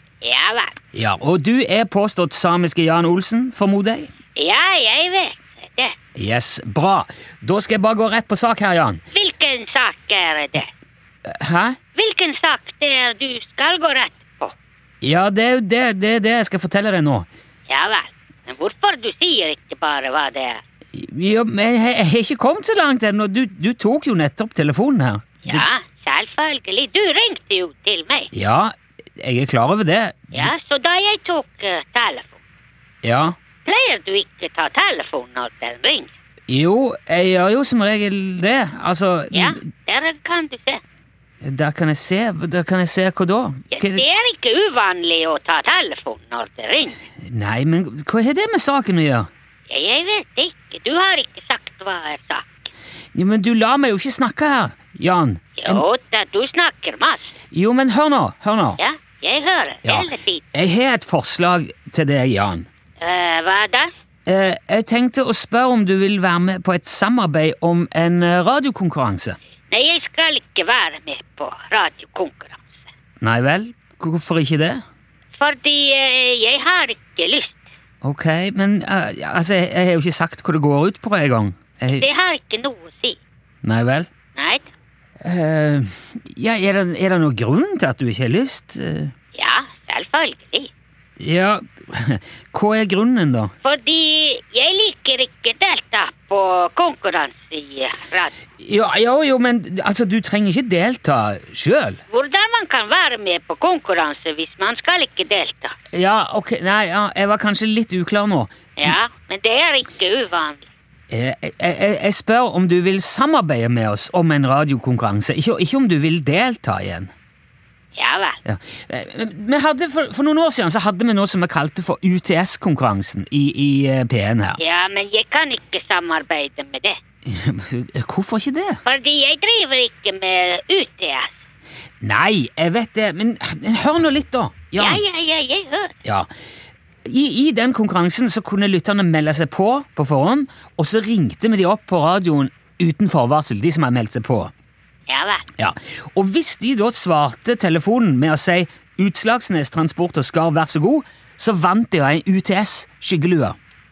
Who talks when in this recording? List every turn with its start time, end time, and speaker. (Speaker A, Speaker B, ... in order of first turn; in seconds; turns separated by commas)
Speaker A: 0.2-0.8, Speaker B: 0.9-4.1, Speaker A: 4.3-5.9, Speaker B: 6.2-9.0, Speaker A: 9.1-10.7, Speaker B: 11.2-11.8, Speaker A: 11.9-14.5, Speaker B: 15.0-17.3, Speaker A: 17.7-20.6, Speaker B: 20.9-25.7, Speaker A: 25.4-28.3, Speaker B: 28.3-30.5, Speaker A: 30.3-32.4, Speaker B: 33.0-33.4, Speaker A: 33.6-36.1, Speaker B: 36.5-39.6, Speaker A: 39.3-40.8, Speaker B: 41.4-44.0, Speaker A: 43.7-47.0, Speaker B: 47.2-49.3, Speaker A: 49.7-52.7, Speaker B: 53.1-55.8, Speaker A: 55.6-57.3, Speaker B: 57.5-58.8, Speaker A: 58.8-60.4, Speaker B: 59.8-62.7, Speaker A: 63.0-63.9, Speaker B: 64.2-69.4, Speaker A: 69.7-72.7, Speaker B: 73.2-74.8, Speaker A: 75.4-77.6, Speaker B: 78.0-82.0, Speaker A: 82.0-83.2, Speaker B: 83.6-84.1, Speaker A: 84.3-84.7, Speaker B: 85.2-89.1, Speaker A: 89.3-90.7, Speaker B: 91.2-93.5, Speaker A: 93.6-98.3, Speaker B: 98.6-102.0, Speaker A: 102.1-105.7, Speaker B: 105.9-108.9, Speaker A: 108.8-110.7, Speaker B: 111.1-117.1, Speaker A: 118.0-118.4, Speaker B: 118.4-124.6, Speaker A: 124.6-127.0, Speaker B: 127.2-128.8, Speaker A: 128.8-131.3, Speaker B: 132.0-135.0, Speaker A: 134.8-135.9, Speaker B: 137.0-144.5, Speaker A: 145.1-145.5, Speaker B: 145.6-153.6